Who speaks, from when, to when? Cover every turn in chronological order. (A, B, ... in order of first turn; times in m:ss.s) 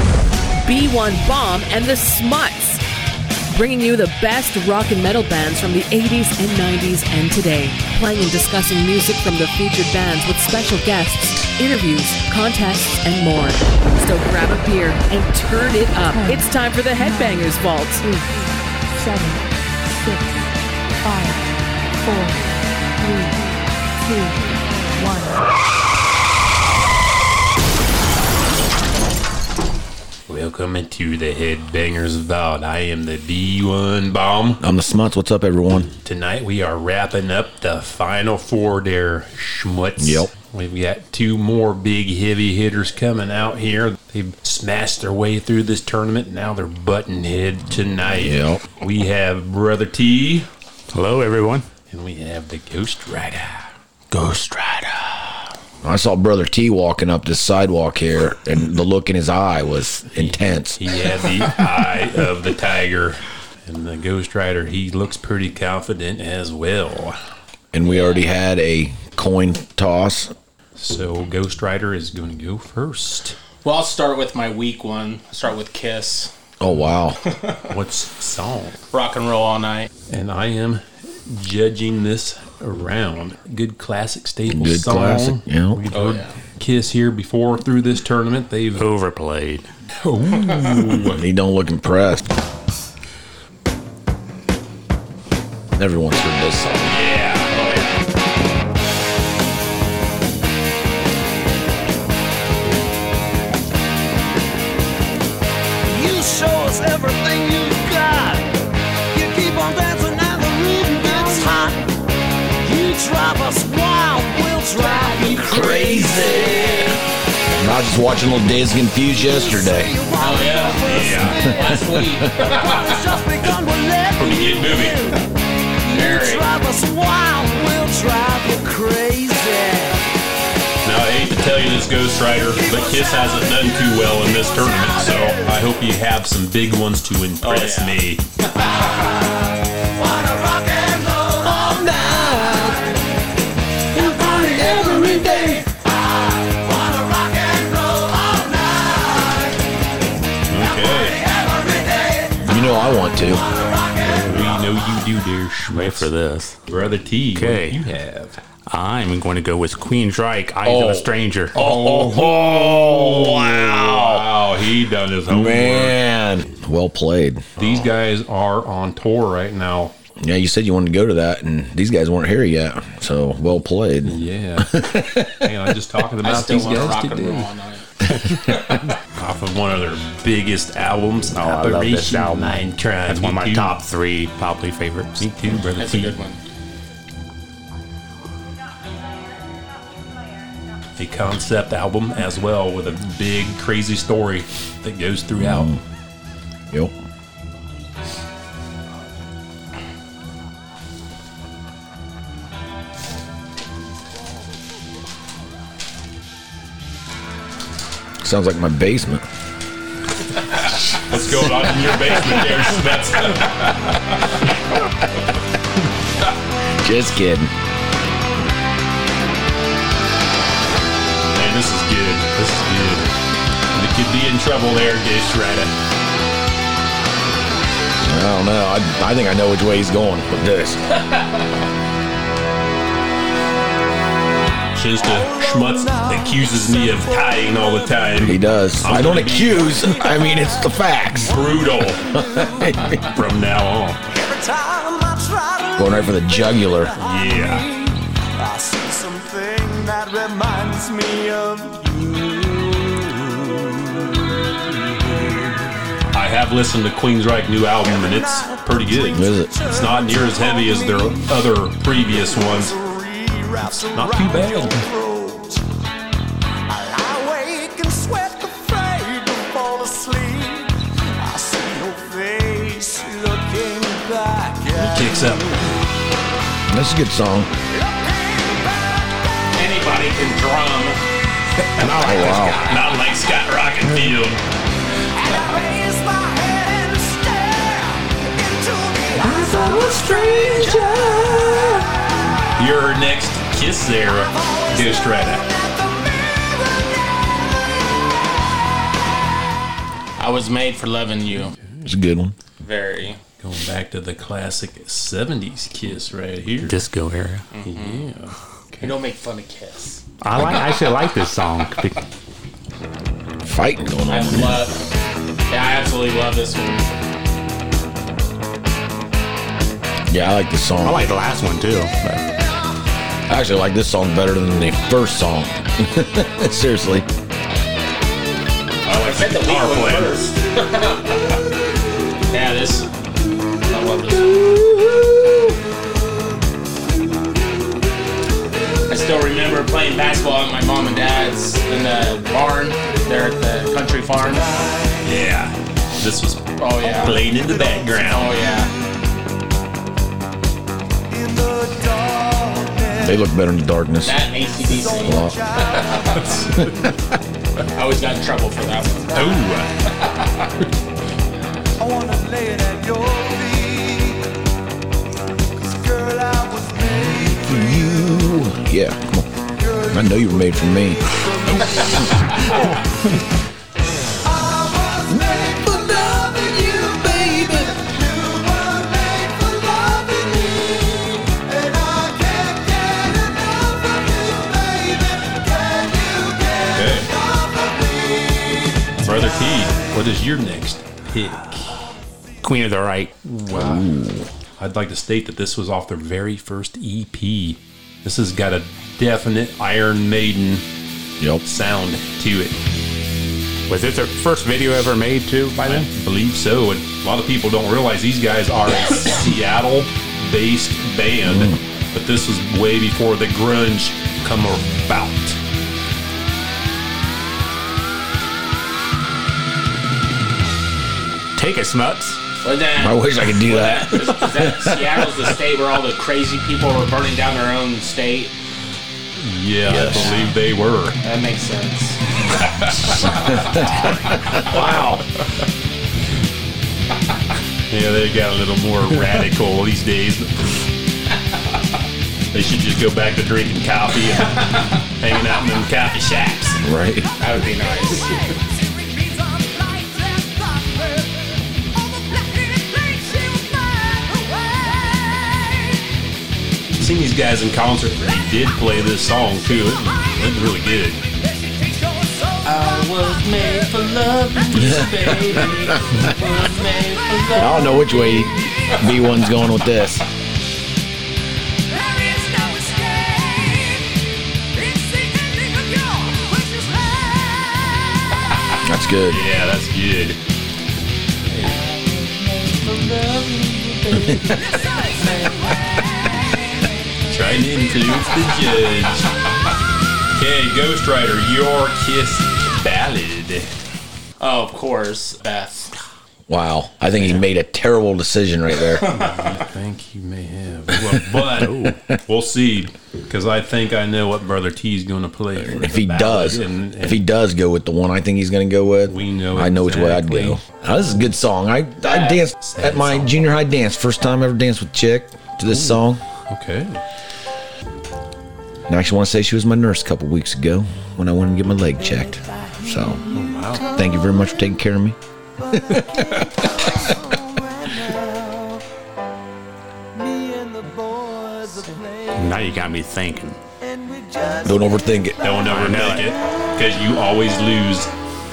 0:00.6-0:02.8 A
0:03.5-0:18.0 A
0:16.1-0:20.5 B
0:21.0-0:21.5 B
0:22.0-0:23.4 B
0:24.0-0:25.4 B
0:30.3-0:34.6 C
0:34.6-0:35.9 D
0:36.0-0:50.5 C
0:40.0-0:40.3 D
0:48.1-0:48.6 D
0:50.9-0:51.6 E
0:51.9-0:53.7 C
0:54.1-0:55.3 E
0:55.8-1:00.8 D
1:00.2-1:07.2 C
1:07.7-1:10.3 D
1:10.8-1:13.4 C
1:13.6-1:16.3 F
1:16.6-1:17.2 D
1:17.7-1:18.8 C
1:18.9-1:19.9 F
1:20.1-1:28.9 C
1:24.5-1:25.8 D
1:25.9-1:26.3 F
1:28.8-1:29.7 E
1:30.0-1:31.2 C
1:31.1-1:32.3 D
1:35.8-1:36.9 D
1:36.8-1:37.5 C
1:37.5-1:37.9 F
1:45.8-1:48.5 G
1:49.1-1:51.9 G
1:51.1-1:51.4 F
1:52.6-1:56.0 G
1:54.7-1:57.0 F
1:55.5-1:57.0 D
1:57.6-1:59.9 D
1:59.2-2:05.2 G
2:00.2-2:02.7 F
2:00.8-2:01.5 C
2:01.5-2:02.2 D
2:04.2-2:05.1 C
2:05.8-2:10.1 G
2:05.9-2:06.4 F
2:10.8-2:18.2 C
2:12.5-2:15.5 G
2:17.4-2:18.0 F
2:20.0-2:21.9 G
2:21.4-2:22.8 D
2:23.9-2:25.6 D
2:23.9-2:25.7 G
2:26.5-2:29.5 G
2:30.5-2:31.2 C
2:30.5-2:32.4 G
2:32.4-2:33.4 D
2:33.4-2:34.7 G
2:34.0-2:36.1 C
2:34.1-2:34.5 E
2:35.7-2:36.6 E
2:36.7-2:38.4 C
2:37.3-2:37.8 E
2:38.7-2:41.5 E
2:40.6-2:44.2 D
2:41.5-2:46.0 C
2:45.3-2:47.8 D
2:47.6-2:49.9 C
2:50.2-2:55.5 D
2:54.0-2:57.5 C
2:56.2-2:57.8 F
2:58.1-3:03.8 C
2:58.2-2:58.6 D
3:01.3-3:05.3 E
3:05.2-3:06.2 C
3:05.8-3:06.4 F
3:11.0-3:15.7 C
3:15.4-3:15.8 D
3:28.2-3:29.2 D
3:31.1-3:34.2 C
3:36.8-3:37.5 D
3:41.3-3:43.1 C
3:43.7-3:45.7 C
3:48.0-3:50.8 D
3:54.7-4:00.1 C
3:55.0-3:58.4 G
3:58.2-4:01.4 D
3:59.7-4:00.6 G
4:01.2-4:02.0 C
4:01.2-4:03.1 G
4:02.1-4:03.0 D
4:03.0-4:04.0 C
4:04.1-4:13.7 G
4:05.8-4:06.9 D
4:07.0-4:07.6 C
4:16.1-4:22.7 C
4:17.8-4:21.5 G
4:19.1-4:19.5 D
4:22.0-4:25.6 G
4:23.8-4:24.8 C
4:26.7-4:35.7 G
4:34.7-4:35.6 C
4:36.7-4:37.5 D
4:37.7-4:39.2 G
4:39.6-4:41.0 F
4:41.8-4:42.9 E
4:41.8-4:44.4 C
4:42.0-4:42.6 D
4:45.1-4:51.6 G
4:49.2-4:51.9 D
4:52.6-4:55.4 C
4:54.4-4:57.4 G
5:00.2-5:01.5 F
5:01.6-5:01.9 C
5:01.8-5:02.3 D
5:02.6-5:03.2 F
5:03.4-5:06.8 C
5:06.6-5:07.5 E
5:07.5-5:08.0 F
5:07.6-5:09.0 C
5:08.8-5:10.0 F
5:10.2-5:12.0 E
5:13.4-5:14.6 D
5:14.1-5:14.9 F
5:15.5-5:16.9 F
5:20.1-5:21.1 D
5:20.8-5:22.2 E
5:23.3-5:27.1 D
5:28.9-5:30.2 C
5:28.9-5:31.2 F
5:32.3-5:32.9 F
5:33.7-5:34.5 F
5:34.1-5:35.5 D
5:38.9-5:44.5 F
5:44.4-5:45.0 G
5:45.0-5:48.4 C
5:46.6-5:47.2 F
5:47.3-5:47.9 G
5:48.0-5:48.7 F
5:51.1-5:53.2 G
5:53.0-5:54.2 D
5:54.0-5:55.2 F
5:54.6-5:56.6 G
5:55.0-5:55.4 D
5:56.1-5:56.7 C
5:57.8-5:59.2 F
5:59.1-5:59.4 G
5:59.1-5:59.7 C
6:01.8-6:04.2 G
6:05.6-6:08.3 G
6:06.9-6:09.3 D
6:09.5-6:13.1 G
6:09.9-6:11.1 D
6:11.6-6:12.3 D
6:14.2-6:29.9 G
6:15.1-6:16.5 D
6:17.0-6:17.7 D
6:26.7-6:27.1 C
6:29.0-6:31.8 C
6:32.4-6:33.1 E
6:33.2-6:33.9 C
6:33.5-6:34.3 D
6:34.6-6:40.6 C
6:41.4-6:42.5 C
6:43.7-6:45.9 E
6:45.6-6:55.4 C
6:51.3-6:51.6 D
7:01.4-7:02.2 E
7:02.4-7:08.3 F
7:02.8-7:05.0 D
7:09.2-7:11.0 C
7:09.7-7:10.1 D
7:11.0-7:12.0 F
7:12.4-7:13.4 C
7:14.1-7:15.0 D
7:14.4-7:14.7 C
7:17.7-7:20.6 C
7:22.3-7:26.6 C
7:26.6-7:27.1 D
7:27.2-7:28.1 F
7:27.9-7:34.6 G
7:36.8-7:41.0 C
7:41.3-7:43.0 G
7:42.4-7:48.5 F
7:44.6-7:46.0 D
7:47.3-7:50.0 D
7:51.7-7:54.0 G
7:54.5-7:57.6 G
7:58.6-7:59.2 D
7:59.1-8:00.2 C
8:01.2-8:01.6 C
8:01.6-8:05.6 G
8:07.1-8:09.1 C
8:10.1-8:13.5 C
8:14.2-8:15.7 F
8:16.3-8:18.8 D
8:16.9-8:17.2 C
8:18.7-8:19.1 F
8:18.8-8:27.0 C
8:21.4-8:21.7 E
8:21.4-8:21.7 D
8:25.4-8:36.0 D
8:28.8-8:30.4 C
8:31.8-8:32.2 F
8:32.4-8:33.3 C
8:35.4-8:36.8 C
8:38.7-8:43.0 D
8:41.8-8:44.5 G
8:43.1-8:43.7 C
8:43.7-8:45.0 D
8:45.4-8:48.6 G
8:49.9-8:52.6 G
8:52.1-8:53.4 E
8:53.6-8:56.2 G
8:54.4-8:55.2 D
8:55.2-8:57.9 C
8:55.5-8:56.1 E